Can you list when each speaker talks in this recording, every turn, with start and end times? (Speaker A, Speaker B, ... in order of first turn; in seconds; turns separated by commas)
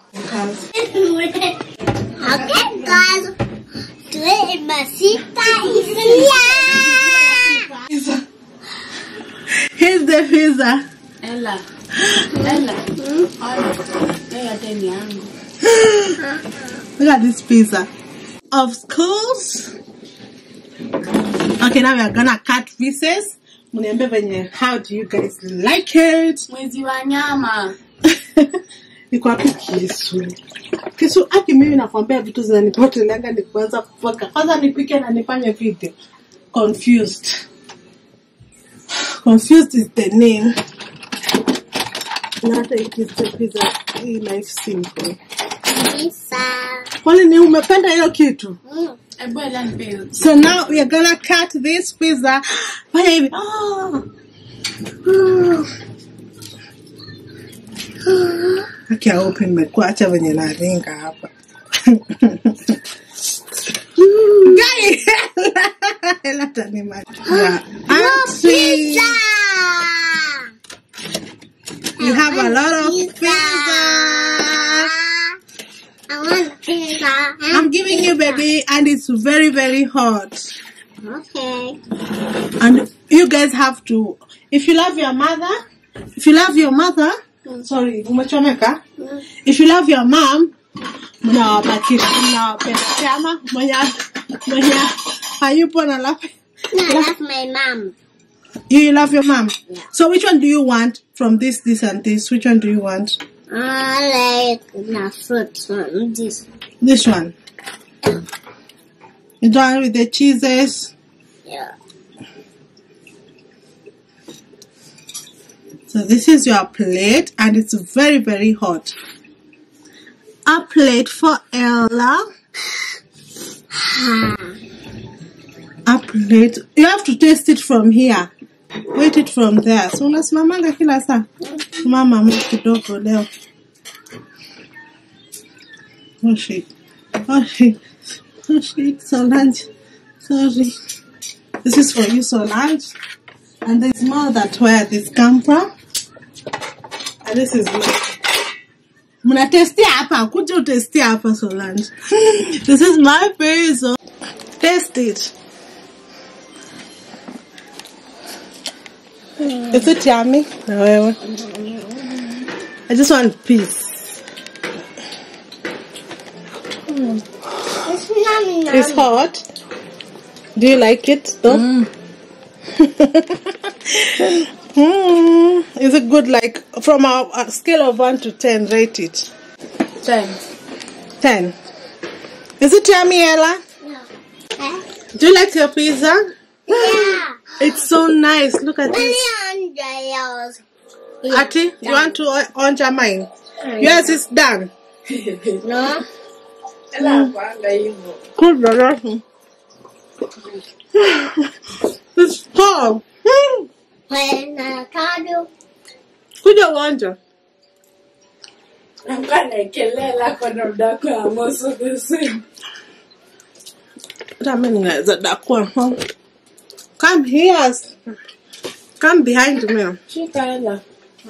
Speaker A: 0.1-0.7, Speaker B: 0.7-1.6, Speaker B: 2.2-3.3, Speaker A: 2.5-3.0, Speaker B: 4.1-7.7, Speaker A: 5.3-8.2, Speaker A: 9.5-10.9, Speaker C: 11.2-11.6, Speaker A: 12.0-12.3, Speaker B: 12.3-13.3, Speaker C: 12.4-15.3, Speaker A: 15.7-16.2, Speaker B: 16.2-16.5, Speaker A: 17.0-17.9, Speaker A: 18.5-19.7, Speaker A: 21.6-26.5, Speaker C: 26.5-27.7, Speaker A: 28.1-28.5, Speaker A: 29.1-30.4, Speaker A: 31.0-35.9, Speaker A: 36.5-37.4, Speaker A: 39.0-40.5, Speaker A: 42.4-45.2, Speaker B: 45.7-46.9, Speaker A: 47.0-48.6, Speaker B: 48.7-49.0, Speaker C: 49.2-50.5, Speaker A: 50.2-54.1, Speaker B: 55.0-55.7, Speaker B: 58.0-58.7, Speaker A: 58.9-61.3, Speaker A: 61.8-62.8, Speaker B: 64.0-64.8, Speaker A: 64.4-69.2, Speaker B: 67.3-70.5, Speaker B: 72.0-75.4, Speaker A: 72.0-74.9, Speaker B: 76.1-78.4, Speaker A: 77.5-80.5, Speaker B: 81.0-81.8, Speaker A: 82.6-85.6, Speaker A: 86.2-88.8, Speaker A: 89.4-90.5, Speaker A: 91.2-96.3, Speaker B: 96.7-98.0, Speaker A: 96.8-97.1, Speaker A: 98.7-103.2, Speaker B: 103.5-106.4, Speaker A: 106.8-107.3, Speaker A: 109.4-110.9, Speaker B: 111.5-111.7, Speaker A: 115.9-118.9, Speaker A: 120.5-122.3, Speaker B: 123.7-124.6, Speaker A: 125.9-128.3, Speaker A: 128.9-131.3, Speaker A: 131.8-133.3, Speaker A: 136.2-136.7, Speaker A: 137.3-137.8, Speaker A: 138.4-139.7, Speaker A: 140.2-140.8, Speaker A: 141.6-142.9, Speaker A: 143.7-145.7, Speaker A: 147.2-148.0, Speaker A: 149.2-154.0, Speaker A: 154.6-155.3, Speaker B: 159.4-159.7, Speaker A: 159.7-161.2, Speaker B: 161.2-162.3, Speaker A: 162.9-164.2, Speaker A: 166.9-167.2, Speaker B: 167.8-169.1, Speaker A: 168.7-169.4, Speaker A: 170.6-171.7, Speaker C: 171.5-171.9, Speaker A: 172.8-179.3, Speaker C: 180.0-180.4, Speaker A: 181.2-181.6, Speaker A: 182.6-183.6, Speaker B: 184.6-184.9, Speaker A: 185.2-189.2, Speaker B: 186.7-187.4, Speaker B: 188.9-190.6, Speaker B: 191.2-192.2, Speaker A: 191.3-194.7, Speaker B: 193.6-194.1, Speaker C: 195.1-195.6, Speaker B: 195.6-196.1, Speaker C: 196.9-198.2, Speaker A: 198.4-199.2, Speaker A: 200.9-201.5, Speaker A: 202.2-203.7, Speaker B: 204.1-205.5, Speaker A: 206.4-207.2, Speaker C: 209.1-212.4, Speaker A: 214.4-216.0, Speaker A: 217.0-217.9, Speaker A: 219.0-220.0, Speaker C: 220.1-220.8